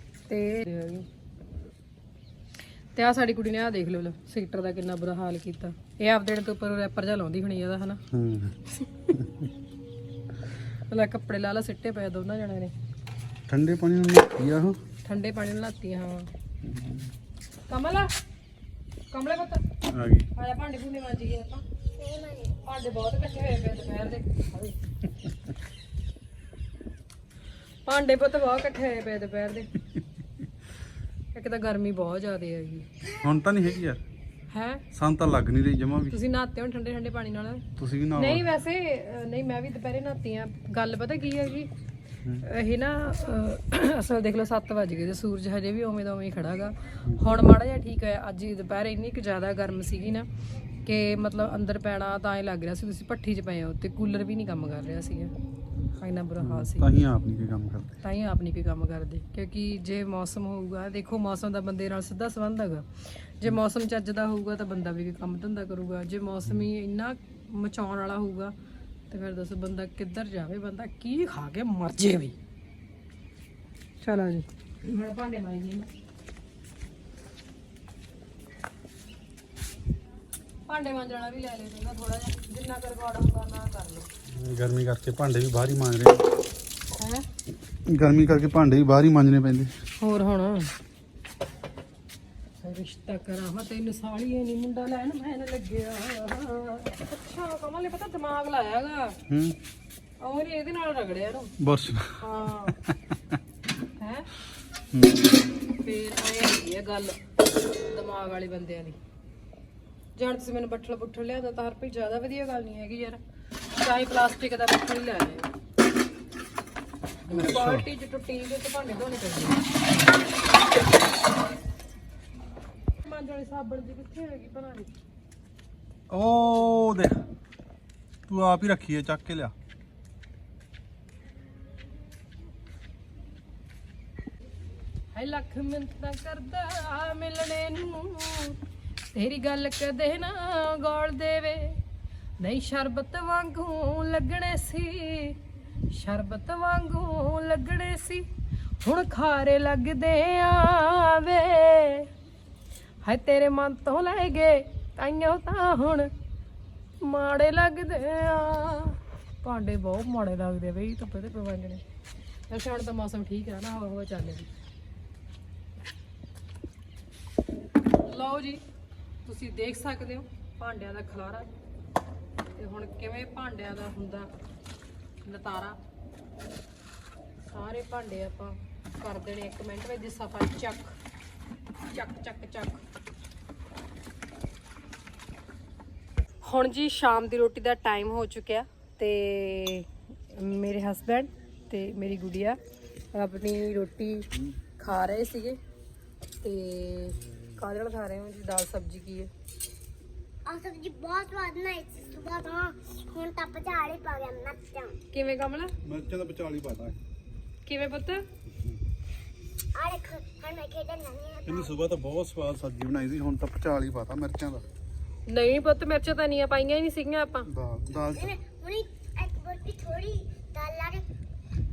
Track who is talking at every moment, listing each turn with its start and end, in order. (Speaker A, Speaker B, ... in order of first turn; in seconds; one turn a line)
Speaker A: 0.3-1.1
Speaker A: 2.9-8.0
Speaker B: 8.1-8.6
Speaker A: 8.7-9.1
Speaker A: 10.9-12.7
Speaker B: 13.5-14.8
Speaker A: 15.0-16.3
Speaker B: 16.6-17.1
Speaker A: 17.7-18.1
Speaker A: 19.1-19.6
Speaker B: 19.9-20.3
Speaker A: 20.3-21.6
Speaker C: 22.0-22.5
Speaker A: 22.6-24.7
Speaker A: 27.8-29.7
Speaker A: 31.3-32.9
Speaker B: 33.1-34.0
Speaker A: 34.5-34.8
Speaker B: 34.9-36.2
Speaker A: 36.1-41.7
Speaker B: 37.8-38.4
Speaker A: 42.4-50.2
Speaker A: 50.9-55.3
Speaker A: 56.0-56.9
Speaker B: 56.4-57.9
Speaker A: 58.0-68.5
Speaker A: 69.1-72.3
Speaker A: 74.0-75.9
Speaker A: 80.7-84.1
Speaker B: 84.3-86.3
Speaker A: 86.9-87.2
Speaker B: 87.8-89.7
Speaker A: 90.0-90.7
Speaker A: 92.6-99.2
Speaker B: 99.3-99.6
Speaker A: 100.2-101.5
Speaker B: 101.6-102.9
Speaker A: 102.2-102.8
Speaker A: 104.0-104.3
Speaker B: 104.9-105.4
Speaker A: 105.8-107.2
Speaker A: 107.9-109.0
Speaker A: 110.2-113.2
Speaker A: 113.8-115.5
Speaker B: 117.3-117.8
Speaker A: 117.3-119.6
Speaker A: 123.0-124.9
Speaker B: 126.1-127.3
Speaker B: 128.3-129.5
Speaker A: 135.1-138.6
Speaker A: 139.1-141.8
Speaker A: 142.4-145.4
Speaker A: 145.9-148.2
Speaker A: 148.8-152.1
Speaker A: 153.0-156.1
Speaker A: 157.0-161.8
Speaker A: 162.5-164.5
Speaker A: 168.0-168.6
Speaker A: 169.2-171.5
Speaker A: 172.6-174.3
Speaker A: 175.2-175.8
Speaker A: 177.5-181.0
Speaker A: 181.9-182.8
Speaker A: 186.4-192.6
Speaker A: 193.1-195.6
Speaker A: 196.4-199.3
Speaker C: 200.4-205.0
Speaker A: 205.1-205.7
Speaker B: 205.8-207.0
Speaker A: 207.7-208.2
Speaker C: 209.7-211.7
Speaker B: 211.4-214.7
Speaker A: 215.3-217.5
Speaker B: 217.5-218.3
Speaker C: 218.1-221.0